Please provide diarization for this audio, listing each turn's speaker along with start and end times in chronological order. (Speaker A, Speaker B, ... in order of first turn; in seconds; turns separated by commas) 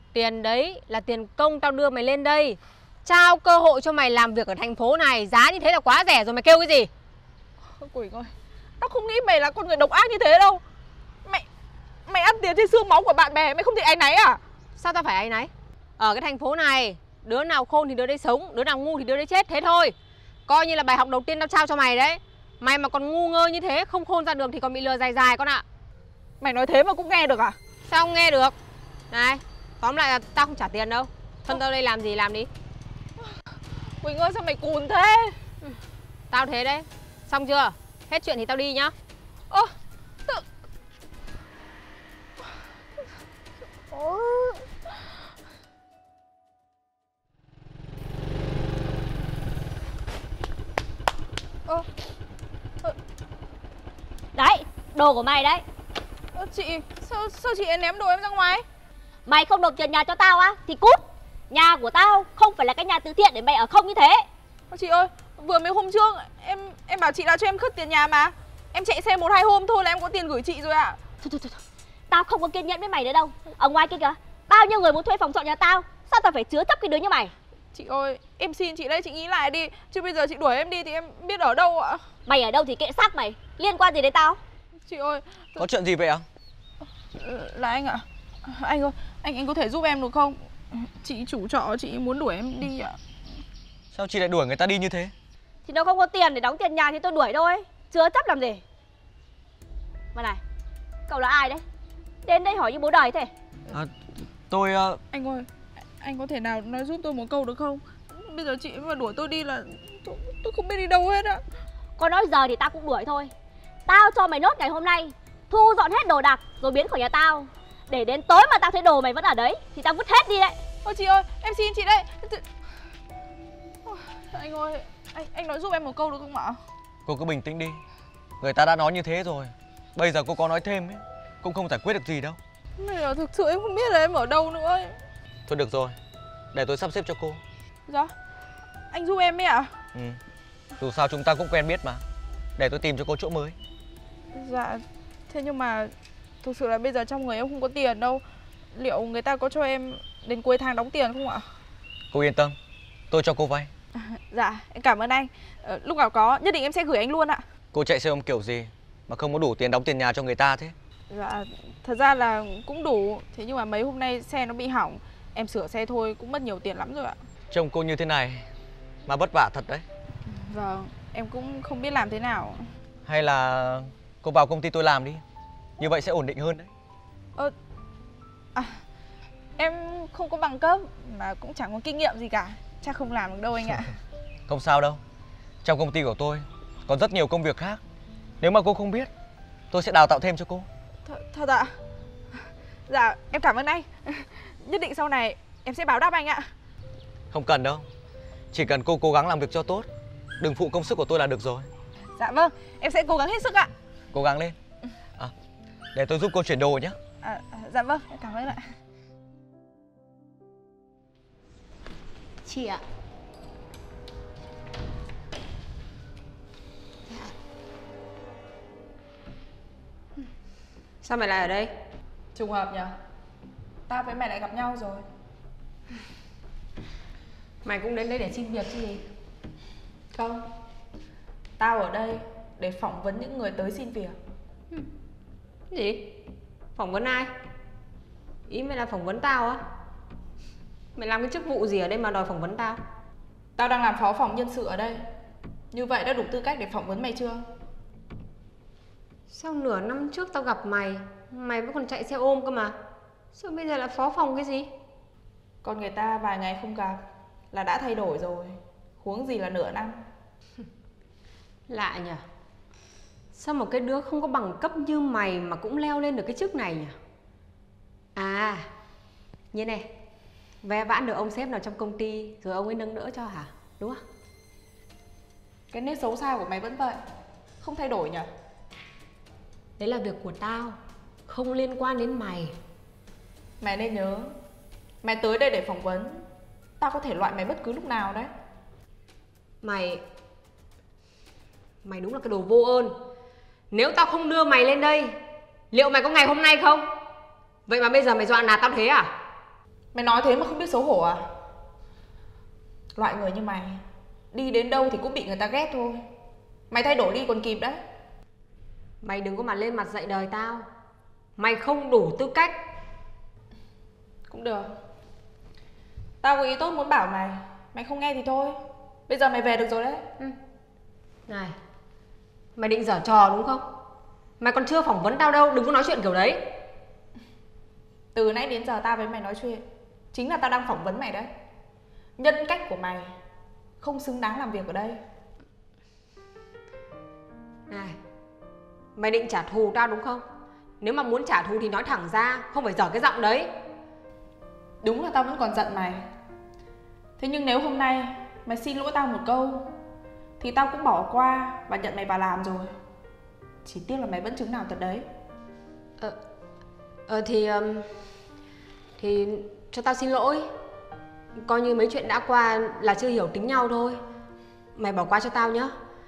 Speaker A: 0.1-6.9, Speaker B: 7.7-10.6, Speaker B: 12.1-14.4, Speaker A: 14.8-19.9, Speaker A: 20.5-25.6, Speaker B: 26.4-27.6, Speaker A: 27.9-28.6, Speaker A: 29.1-32.5, Speaker B: 34.0-35.4, Speaker A: 36.3-38.9, Speaker B: 43.9-44.6, Speaker C: 54.4-55.6, Speaker B: 56.3-58.6, Speaker C: 59.3-61.0, Speaker C: 61.5-64.2, Speaker B: 64.7-71.0, Speaker C: 71.2-71.5, Speaker C: 72.1-77.3, Speaker B: 77.7-82.0, Speaker C: 82.3-84.4, Speaker B: 84.9-85.7, Speaker D: 85.6-86.2, Speaker B: 87.2-93.0, Speaker D: 93.9-95.1, Speaker C: 95.7-98.6, Speaker C: 101.1-101.6, Speaker C: 102.3-103.2, Speaker D: 104.5-105.0, Speaker B: 105.1-105.5, Speaker B: 106.0-111.4, Speaker C: 112.0-113.3, Speaker C: 113.9-120.5, Speaker B: 120.8-122.4, Speaker B: 123.9-126.6, Speaker D: 127.1-127.8, Speaker D: 128.4-132.4, Speaker B: 132.8-135.0, Speaker D: 135.5-136.0, Speaker D: 136.5-137.4, Speaker B: 137.9-138.1, Speaker B: 138.9-139.7, Speaker D: 140.8-142.0, Speaker D: 142.6-143.6, Speaker B: 144.3-148.2, Speaker B: 148.8-151.4, Speaker D: 152.1-152.6, Speaker D: 153.1-153.7, Speaker B: 154.2-157.4, Speaker D: 157.7-160.7, Speaker B: 161.1-167.2, Speaker D: 167.5-168.4, Speaker D: 169.1-169.8, Speaker B: 170.4-172.7, Speaker D: 173.1-175.2, Speaker D: 175.8-176.7, Speaker B: 178.6-178.8, Speaker B: 179.6-184.0, Speaker D: 184.5-185.0, Speaker D: 185.6-187.8, Speaker D: 188.4-189.1, Speaker D: 189.7-190.7, Speaker B: 191.1-191.7, Speaker B: 192.9-196.5, Speaker D: 197.3-197.9, Speaker D: 198.5-199.9, Speaker D: 200.4-201.7, Speaker B: 202.2-203.7, Speaker D: 204.1-204.6, Speaker D: 205.9-207.0, Speaker B: 207.2-208.6, Speaker A: 212.4-212.8, Speaker A: 221.0-221.7, Speaker B: 222.3-222.9, Speaker B: 223.9-225.0, Speaker A: 227.6-229.1, Speaker B: 230.1-230.5, Speaker B: 231.6-234.2, Speaker A: 235.7-236.1, Speaker A: 236.8-237.3, Speaker A: 238.5-239.6, Speaker A: 240.9-242.8, Speaker B: 243.6-245.1, Speaker B: 245.7-247.4, Speaker A: 249.3-252.8, Speaker A: 253.3-254.7, Speaker B: 255.6-260.0, Speaker A: 261.7-262.2, Speaker A: 263.3-267.0, Speaker A: 268.1-268.7, Speaker A: 269.5-269.9, Speaker A: 270.6-274.0, Speaker B: 275.7-277.0, Speaker B: 277.6-278.3, Speaker A: 279.8-282.6, Speaker B: 283.6-284.3, Speaker B: 285.0-286.2, Speaker B: 286.8-288.3, Speaker A: 289.6-290.0, Speaker A: 291.8-293.0, Speaker A: 293.7-295.2, Speaker A: 295.7-296.9, Speaker A: 297.7-299.1, Speaker B: 299.9-301.2, Speaker B: 302.9-303.8, Speaker B: 304.3-306.0, Speaker B: 306.7-307.8, Speaker A: 309.0-310.7, Speaker A: 311.4-312.6, Speaker B: 314.3-314.7, Speaker B: 316.2-320.0, Speaker A: 321.3-321.6, Speaker A: 322.6-323.6, Speaker A: 324.4-326.5, Speaker B: 328.1-331.3, Speaker B: 332.2-333.1, Speaker B: 333.8-335.0, Speaker A: 337.7-338.0, Speaker A: 339.0-340.3, Speaker A: 340.8-343.5, Speaker B: 344.8-346.1, Speaker B: 347.2-349.7, Speaker B: 350.4-352.7, Speaker B: 353.6-355.1, Speaker A: 357.1-358.1, Speaker A: 359.0-360.5, Speaker A: 361.4-364.0, Speaker A: 364.8-365.7